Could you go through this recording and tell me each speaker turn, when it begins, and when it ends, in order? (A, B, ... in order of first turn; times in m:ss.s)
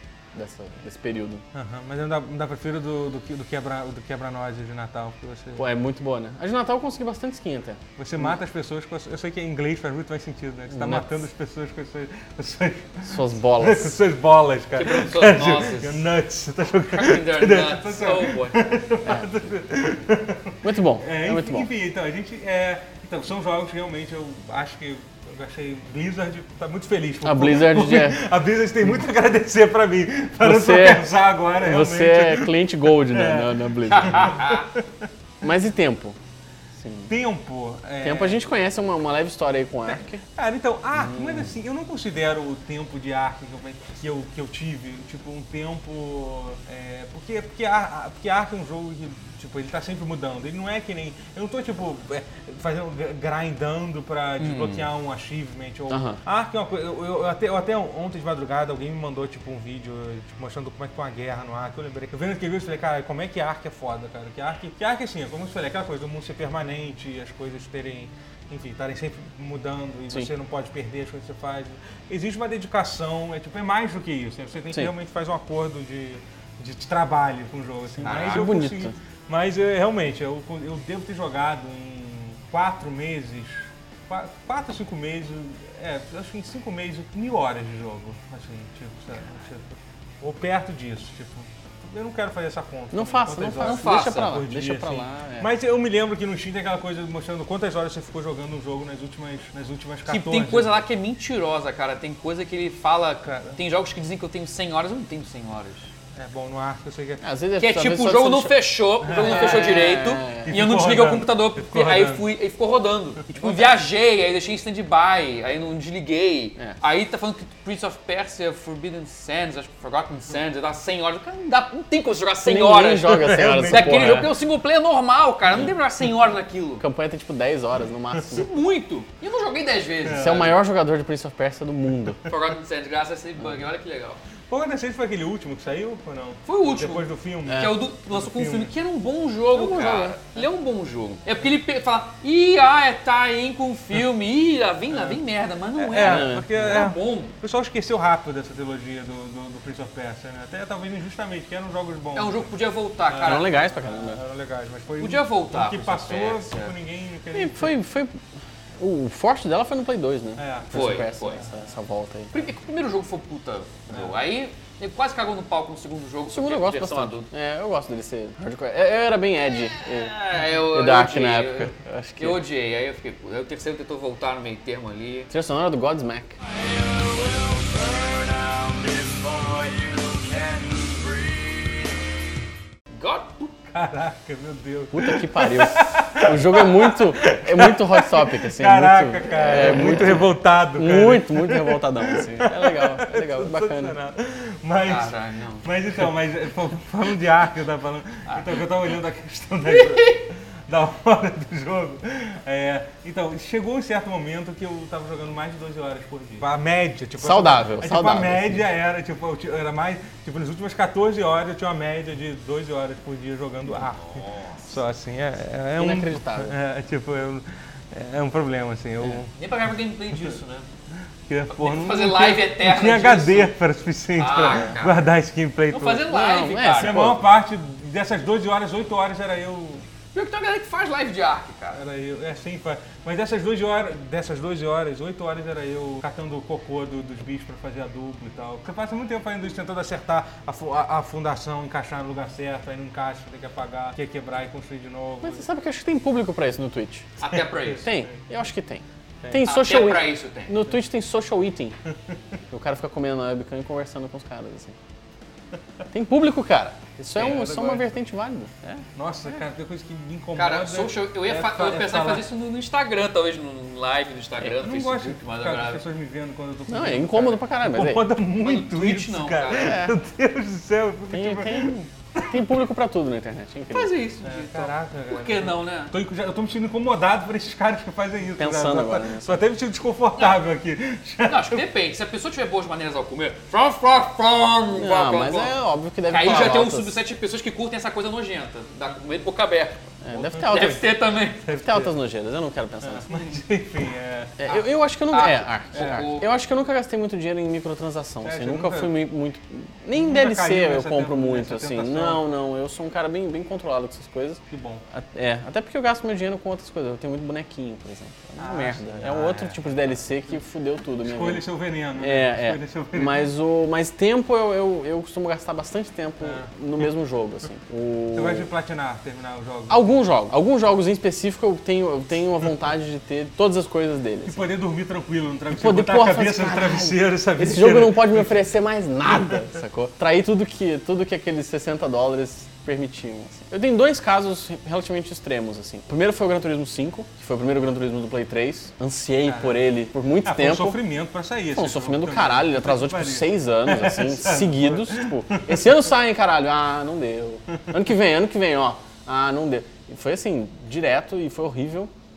0:00.3-0:01.4 A
0:01.5-0:05.6 B
0:05.6-0:08.3 A
0:08.0-0:35.1 B
0:10.7-0:11.2 A
0:13.0-0:14.0 A
0:14.8-0:16.1 C
0:16.9-0:18.6 C
0:19.0-0:19.3 A
0:20.6-0:21.7 A
0:27.2-0:28.2 A
0:30.4-0:34.5 A
0:33.9-0:34.7 C
0:35.4-0:36.2 A
0:36.8-0:37.1 A
0:37.1-0:38.4 B
0:38.0-0:40.2 A
0:39.9-1:40.8 B
0:40.9-0:41.5 A
0:54.4-0:54.9 C
0:55.9-0:56.2 A
1:18.0-1:19.0 A
1:18.0-1:18.6 C
1:32.9-1:35.5 A
1:33.6-1:34.4 C
1:40.1-1:45.9 C
1:43.3-1:43.6 B
1:46.1-1:47.2 B
1:47.2-1:50.6 A
1:47.6-2:06.8 C
1:49.0-1:52.2 B
1:53.3-1:53.8 B
2:02.4-2:04.3 A
2:03.1-2:04.3 B
2:06.8-2:08.5 A
2:08.3-2:10.6 C
2:10.0-2:10.5 B
2:10.1-2:12.3 A
2:12.3-2:14.2 C
2:14.5-2:18.7 B
2:16.5-2:27.3 C
2:17.5-2:17.8 A
2:19.6-2:20.2 A
2:24.9-2:25.2 B
2:25.8-2:32.5 B
2:26.0-2:26.8 A
2:32.2-2:33.5 C
2:33.1-2:37.8 B
2:33.2-2:34.2 A
2:35.0-2:36.7 C
2:37.3-2:38.2 A
2:38.8-2:42.5 A
2:40.4-2:41.1 B
2:40.7-2:41.4 C
2:42.3-2:47.3 C
2:43.9-2:44.2 B
2:46.3-2:52.4 A
2:49.6-2:55.3 C
2:55.3-2:56.4 A
3:00.1-3:01.0 B
3:03.0-3:03.6 C
3:03.7-3:39.3 B
3:04.9-3:14.0 A
3:14.8-3:15.7 C
3:18.3-3:18.7 C
3:19.7-3:20.2 C
3:27.2-3:28.6 A
3:33.7-3:34.7 C
3:35.8-3:36.6 A
3:39.4-3:40.7 C
3:41.3-3:46.1 B
3:41.5-3:43.5 C
3:44.2-3:45.0 C
3:45.7-3:47.0 C
3:46.1-3:47.2 A
3:46.8-3:49.9 B
3:50.1-3:51.8 C
3:51.7-4:05.4 B
4:05.2-4:07.1 A
4:07.2-4:07.9 C
4:07.3-4:08.0 B
4:07.7-4:11.8 A
4:09.4-4:10.6 C
4:12.5-4:14.8 A
4:15.9-4:18.8 A
4:17.2-4:17.9 B
4:19.0-4:22.3 B
4:20.4-4:25.8 C
4:24.4-4:32.5 B
4:26.7-4:28.0 A
4:28.4-4:29.8 C
4:29.5-4:29.9 A
4:31.1-4:33.9 A
4:33.7-4:35.9 C
4:34.2-4:41.7 B
4:38.4-4:39.4 A
4:41.2-4:45.5 C
4:44.7-4:46.9 A
4:46.1-4:51.4 C
4:46.2-4:46.6 B
4:50.0-4:53.1 A
4:50.4-4:50.8 B
4:51.4-4:51.9 B
4:52.8-4:54.4 B
4:54.4-5:11.4 A
4:54.4-4:56.3 C
4:55.8-4:56.1 B
4:58.2-4:59.0 B
4:59.9-5:02.2 B
5:04.5-5:04.8 B
5:08.4-5:10.4 B
5:11.0-5:13.3 B
5:12.0-5:18.5 A
5:16.2-5:16.9 B
5:18.1-5:19.8 B
5:19.7-5:24.5 A
5:24.2-5:28.3 B
5:25.5-5:40.8 A
5:29.1-5:29.5 B
5:39.2-5:39.7 B
5:40.2-5:45.8 B
5:41.5-5:51.9 A